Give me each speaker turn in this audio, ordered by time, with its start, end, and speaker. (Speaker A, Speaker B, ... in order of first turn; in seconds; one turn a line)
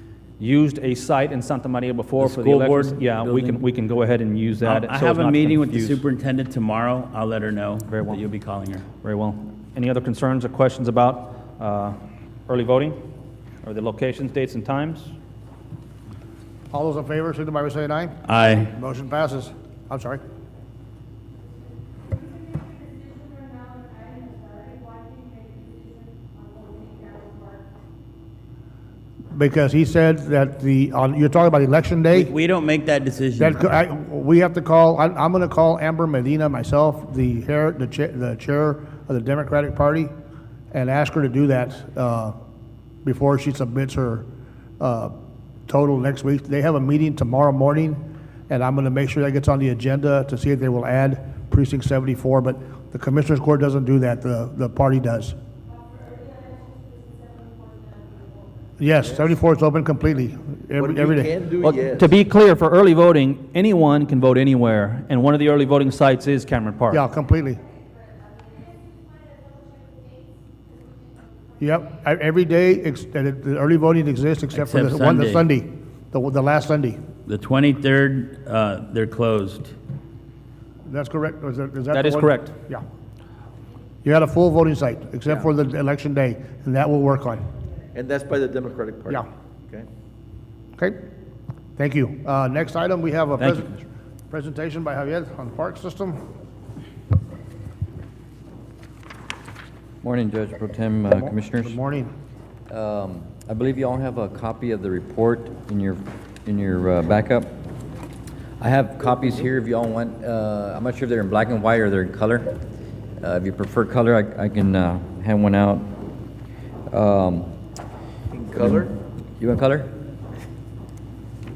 Speaker A: 0.4-6.0
Speaker B: 2.2-3.6
Speaker B: 4.6-8.8
Speaker A: 7.9-8.2
Speaker A: 9.0-13.0
Speaker A: 13.6-15.1
Speaker C: 16.7-18.2
Speaker B: 18.2-18.7
Speaker C: 18.7-20.2
Speaker C: 29.3-32.3
Speaker B: 32.1-33.6
Speaker C: 33.4-40.1
Speaker C: 40.7-42.4
Speaker C: 43.0-44.3
Speaker C: 44.8-45.1
Speaker C: 45.7-55.4
Speaker C: 58.8-61.3
Speaker D: 59.0-59.3
Speaker D: 60.8-62.1
Speaker A: 61.6-67.0
Speaker C: 66.9-67.6
Speaker C: 71.6-77.0
Speaker B: 74.5-75.5
Speaker B: 77.2-79.7
Speaker C: 80.8-82.8
Speaker A: 81.9-82.5
Speaker C: 84.0-87.5
Speaker D: 87.9-89.9
Speaker C: 90.8-91.0
Speaker C: 91.8-96.2
Speaker A: 93.4-93.8
Speaker E: 100.0-101.8
Speaker C: 101.2-102.1
Speaker E: 102.7-107.6
Speaker E: 108.6-112.6
Speaker E: 113.2-115.9
Speaker E: 116.9-117.5
Speaker D: 118.3-118.9
Speaker E: 118.6-119.9